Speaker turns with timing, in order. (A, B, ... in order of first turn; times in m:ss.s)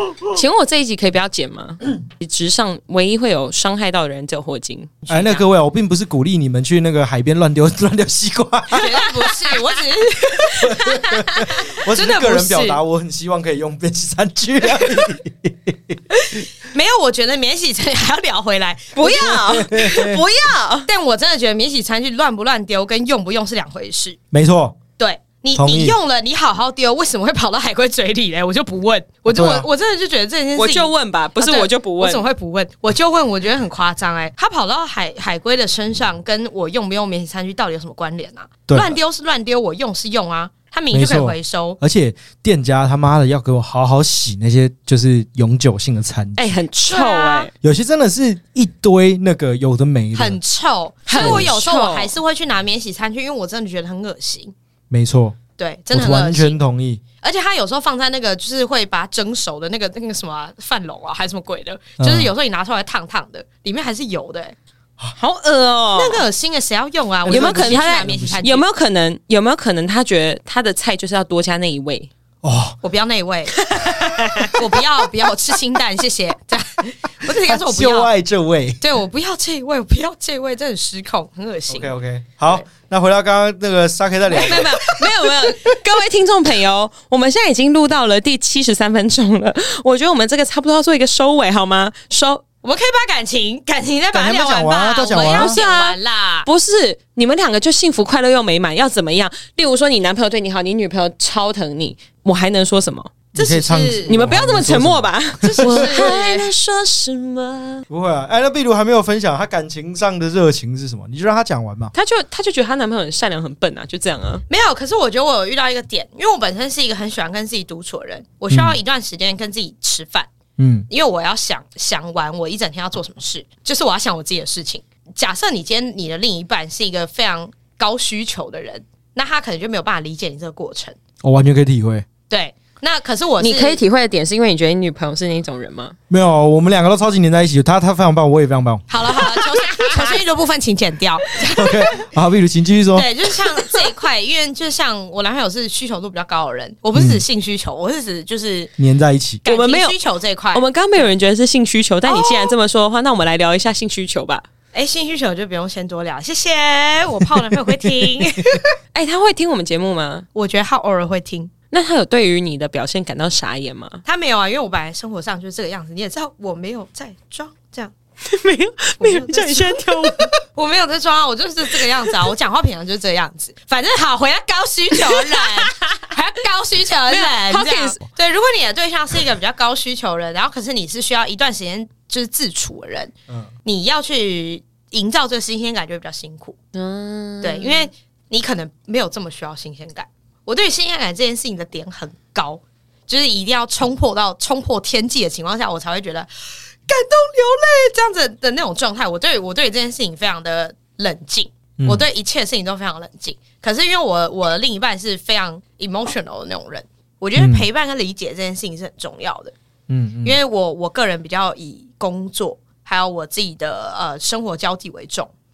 0:00.3-0:05.4 A
0:05.1-0:09.0 B
0:08.7-0:10.8 C
0:09.2-0:09.6 A
0:10.6-0:16.0 B
0:10.6-0:11.5 A
0:11.4-0:12.8 C
0:16.1-0:19.8 C
0:19.0-0:20.9 A
0:19.1-0:20.2 B
0:20.8-0:24.2 C
0:24.3-0:24.8 B
0:25.0-0:41.8 C
0:25.5-0:26.0 B
0:29.3-0:29.7 B
0:30.6-0:32.2 A
0:38.7-0:39.0 B
0:40.9-0:46.6 B
0:46.4-0:47.5 A
0:46.8-0:47.5 C
0:47.6-0:50.4 B
0:50.1-0:54.5 C
0:51.1-0:52.2 A
0:51.1-0:51.6 B
0:54.9-0:55.4 B
0:55.6-0:56.6 C
0:55.9-0:57.0 B
0:57.2-1:04.6 C
1:02.0-1:02.3 B
1:05.2-1:06.2 A
1:05.9-1:08.6 C
1:07.2-1:08.4 B
1:07.3-1:12.1 A
1:12.4-1:12.8 B
1:12.8-1:13.5 C
1:13.6-1:14.6 A
1:14.5-1:18.1 C
1:17.2-1:18.8 B
1:18.8-1:21.9 C
1:21.7-1:25.5 B
1:24.3-1:25.0 C
1:24.3-1:32.4 A
1:32.6-1:36.5 C
1:34.1-1:35.6 B
1:35.1-1:43.2 A
1:43.3-1:46.1 B
1:43.4-1:44.2 C
1:44.0-1:47.8 A
1:45.4-1:46.5 C
1:47.9-1:51.9 B
1:51.9-1:54.4 A
1:54.5-2:00.3 C
1:58.5-1:58.8 B
2:00.6-2:00.9 B
2:00.9-2:11.0 C
2:11.2-2:12.0 B
2:12.3-2:13.8 C
2:13.4-2:16.0 A
2:16.1-2:18.9 B
2:18.9-2:21.9 C
2:19.2-2:20.2 A
2:21.5-2:23.1 B
2:22.9-2:28.7 C
2:26.9-2:27.2 B
2:28.8-2:29.4 B
2:29.4-2:31.1 C
2:29.4-2:30.0 A
2:30.5-2:34.4 A
2:32.0-2:32.5 C
2:34.7-2:38.7 C
2:38.9-2:40.3 A
2:40.3-2:41.5 C
2:41.7-2:44.0 A
2:44.0-2:47.9 C
2:48.2-2:50.3 A
2:49.0-3:03.1 C
2:55.1-2:56.0 A
2:57.1-2:58.0 A
3:03.6-3:06.6 C
3:06.7-3:07.9 A
3:07.4-3:16.3 C
3:16.9-3:29.5 C
3:21.8-3:22.0 B
3:27.3-3:27.6 B
3:29.9-3:30.4 B
3:30.2-3:35.3 C